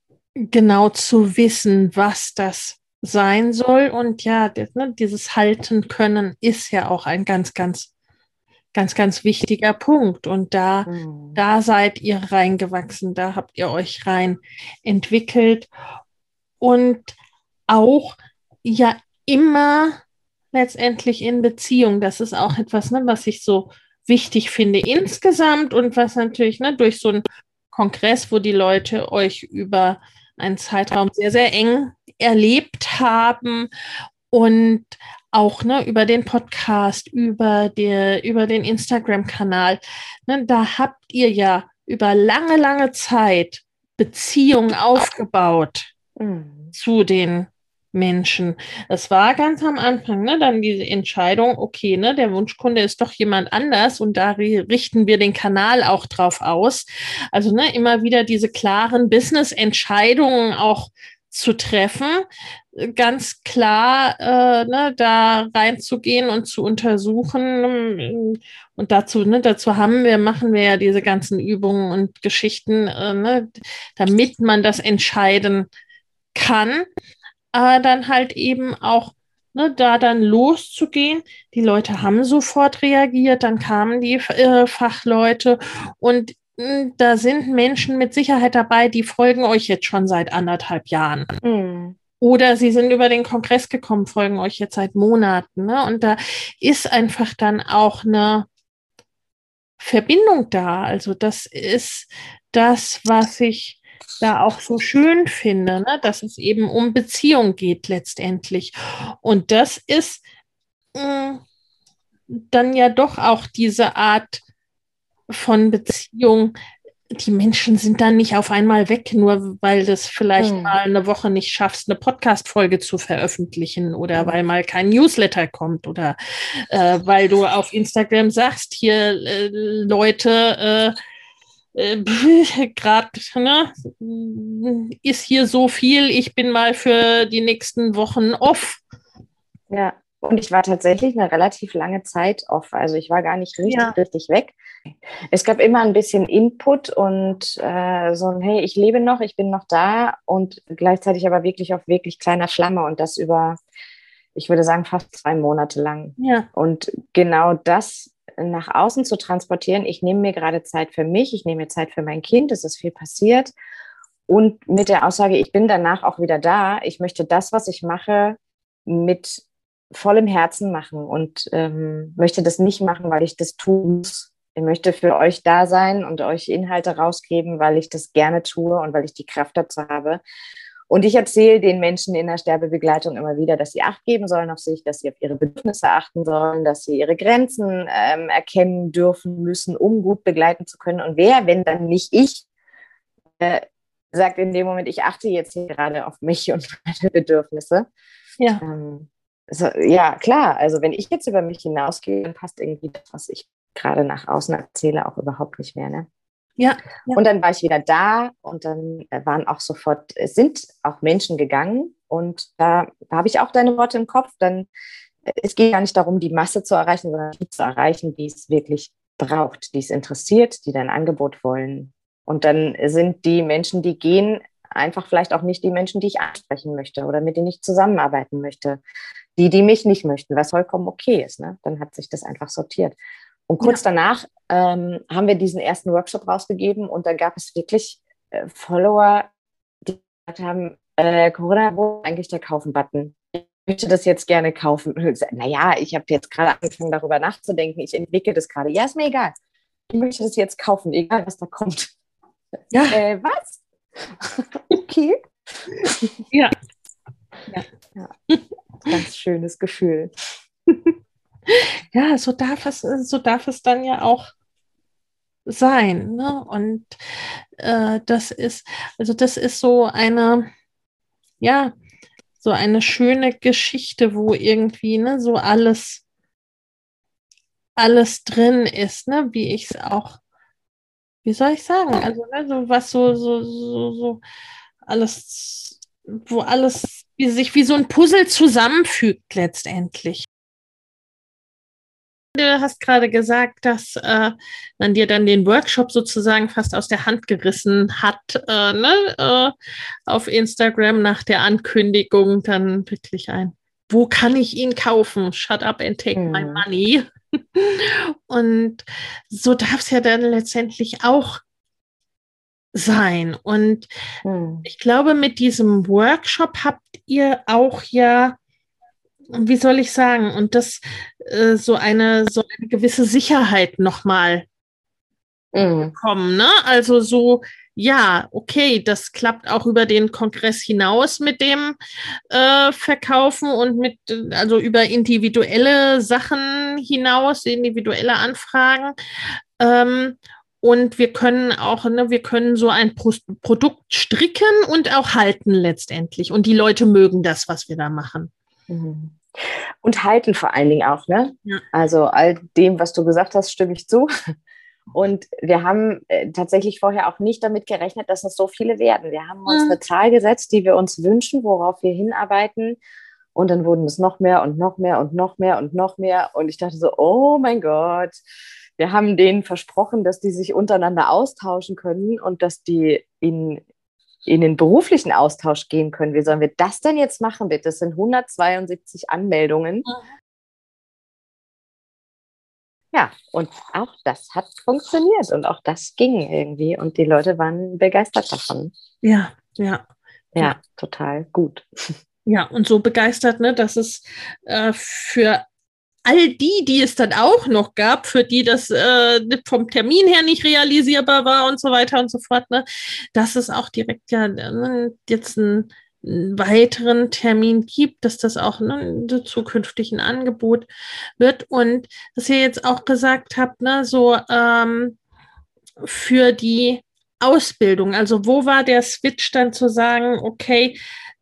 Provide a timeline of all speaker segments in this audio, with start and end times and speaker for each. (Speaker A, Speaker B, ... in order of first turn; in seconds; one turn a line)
Speaker A: 0.3-7.9
Speaker A: 8.7-15.7
Speaker B: 10.9-11.4
Speaker A: 16.6-17.1
Speaker A: 17.7-20.0
Speaker A: 20.5-33.7
Speaker A: 34.3-45.9
Speaker B: 46.2-46.7
Speaker A: 46.7-62.2
Speaker A: 62.7-75.7
Speaker A: 76.3-76.8
Speaker A: 77.5-91.4
Speaker B: 91.4-92.0
Speaker A: 92.2-98.5
Speaker A: 99.8-110.2
Speaker A: 110.9-111.4
Speaker A: 112.3-114.4
Speaker A: 115.3-116.5
Speaker A: 117.1-126.2
Speaker B: 120.4-120.8
Speaker A: 126.7-130.9
Speaker A: 131.7-138.8
Speaker B: 139.7-144.6
Speaker A: 143.7-143.9
Speaker B: 145.3-153.6
Speaker B: 154.3-163.5
Speaker A: 156.2-156.5
Speaker B: 164.3-180.2
Speaker B: 180.9-192.4
Speaker B: 193.4-197.9
Speaker B: 198.6-206.1
Speaker A: 206.6-207.2
Speaker B: 207.1-214.7
Speaker B: 215.2-228.8
Speaker B: 229.3-232.9
Speaker B: 233.5-239.3
Speaker B: 239.8-249.3
Speaker B: 249.9-251.9
Speaker A: 252.7-253.0
Speaker B: 252.9-255.3
Speaker B: 255.8-256.2
Speaker B: 258.9-260.1
Speaker A: 261.5-264.3
Speaker A: 265.4-267.0
Speaker A: 267.6-270.5
Speaker A: 271.4-271.7
Speaker A: 272.4-276.0
Speaker A: 277.8-280.2
Speaker A: 281.2-284.2
Speaker A: 284.9-290.2
Speaker A: 292.3-299.5
Speaker A: 300.1-311.4
Speaker B: 306.1-306.6
Speaker A: 312.7-313.9
Speaker B: 314.2-314.6
Speaker A: 314.6-318.4
Speaker A: 319.3-324.4
Speaker B: 325.5-325.9
Speaker A: 325.6-331.8
Speaker A: 332.3-338.9
Speaker A: 339.6-348.3
Speaker B: 348.7-354.3
Speaker B: 354.9-362.8
Speaker A: 359.5-359.8
Speaker B: 363.3-368.2
Speaker B: 368.8-373.6
Speaker B: 374.2-379.9
Speaker B: 382.9-388.7
Speaker A: 389.0-389.8
Speaker B: 390.3-391.9
Speaker A: 392.2-395.4
Speaker A: 396.1-410.7
Speaker A: 411.2-415.0
Speaker A: 415.8-420.8